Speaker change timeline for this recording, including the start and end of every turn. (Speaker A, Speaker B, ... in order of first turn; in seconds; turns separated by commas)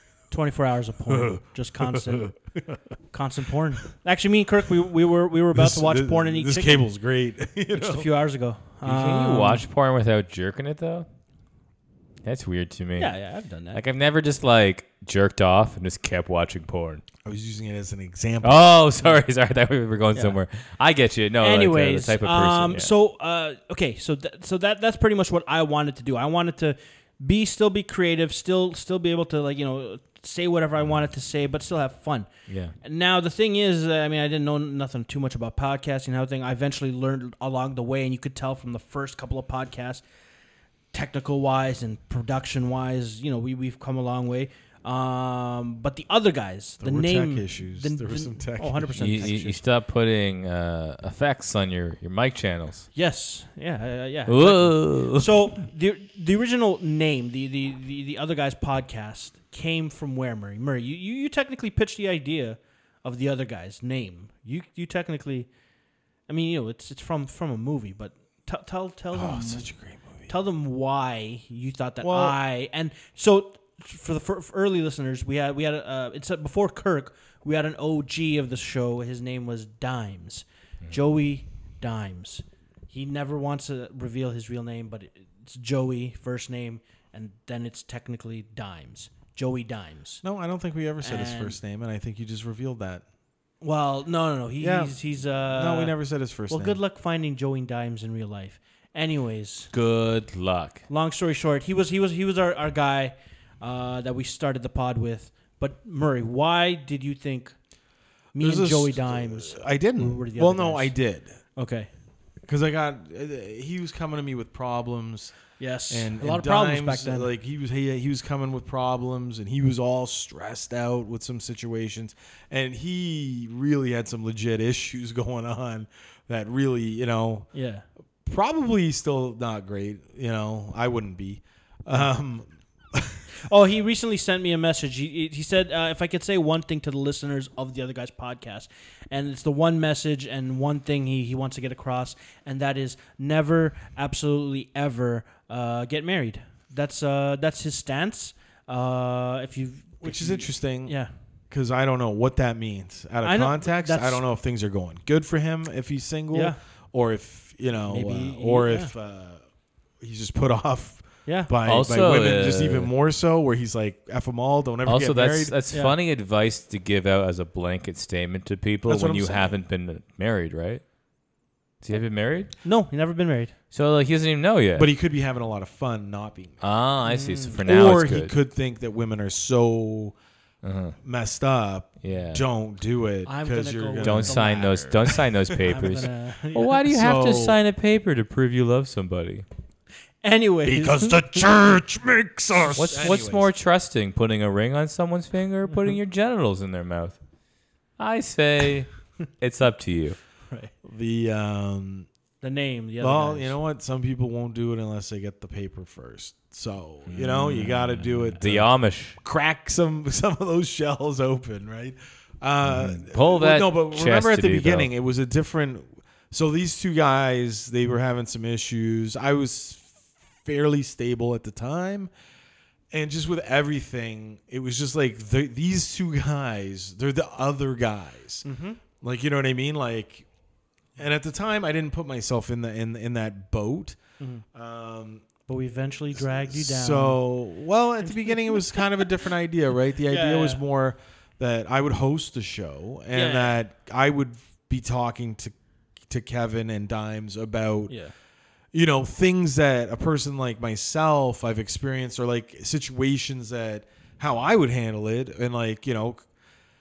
Speaker A: 0.3-2.3, Speaker B: 1.1-2.8, Speaker A: 3.1-6.8, Speaker B: 5.5-8.1, Speaker A: 7.7-9.6, Speaker C: 8.8-11.1, Speaker C: 12.2-13.1, Speaker A: 13.0-13.8, Speaker C: 13.7-17.0, Speaker B: 17.2-18.8, Speaker C: 18.4-22.9, Speaker A: 21.4-40.0, Speaker C: 32.5-32.7, Speaker A: 40.9-49.6, Speaker B: 46.8-49.5, Speaker C: 49.0-52.9, Speaker A: 52.9-65.5, Speaker C: 54.3-55.3, Speaker A: 66.3-69.7, Speaker B: 69.1-70.3, Speaker A: 70.3-90.2, Speaker B: 72.0-72.4, Speaker B: 90.2-93.0, Speaker A: 91.0-91.5, Speaker A: 93.6-95.9, Speaker B: 94.6-95.0, Speaker B: 95.5-96.8, Speaker A: 96.5-99.7, Speaker C: 99.7-100.8, Speaker A: 100.9-107.5, Speaker A: 108.3-110.9, Speaker B: 108.4-111.4, Speaker A: 111.5-111.9, Speaker B: 112.5-115.4, Speaker A: 115.6-117.3, Speaker B: 115.9-127.5, Speaker A: 127.5-127.8, Speaker B: 128.2-133.3, Speaker A: 133.3-151.1, Speaker B: 150.0-150.9, Speaker B: 151.5-159.4, Speaker A: 153.2-154.2, Speaker A: 156.3-156.6, Speaker A: 157.9-158.9, Speaker B: 160.0-165.6, Speaker A: 161.2-161.5, Speaker C: 161.6-162.9, Speaker C: 164.8-170.8, Speaker B: 168.8-169.6, Speaker C: 171.8-172.5, Speaker A: 172.6-173.5, Speaker C: 173.7-174.9, Speaker B: 174.8-176.6, Speaker C: 176.6-178.3, Speaker A: 177.1-177.6, Speaker B: 177.5-180.1, Speaker C: 180.6-181.0, Speaker B: 181.0-184.5, Speaker C: 182.0-182.4, Speaker A: 183.2-186.8, Speaker C: 184.0-189.4, Speaker B: 185.1-185.8, Speaker B: 186.8-187.6, Speaker A: 190.2-191.5, Speaker B: 190.6-193.5, Speaker C: 192.7-197.2, Speaker C: 198.0-200.2, Speaker B: 200.8-202.1, Speaker A: 202.4-203.6, Speaker B: 203.0-208.7, Speaker C: 207.1-209.2, Speaker B: 209.2-222.1, Speaker C: 212.7-214.9, Speaker B: 222.9-228.4, Speaker A: 228.4-228.8, Speaker B: 229.0-230.3, Speaker B: 231.0-234.0, Speaker A: 234.2-234.4, Speaker B: 234.5-235.2, Speaker A: 235.5-237.2, Speaker B: 236.1-245.5, Speaker A: 238.0-238.8, Speaker A: 240.1-240.6, Speaker A: 243.1-243.6, Speaker B: 246.1-248.0, Speaker B: 248.7-256.3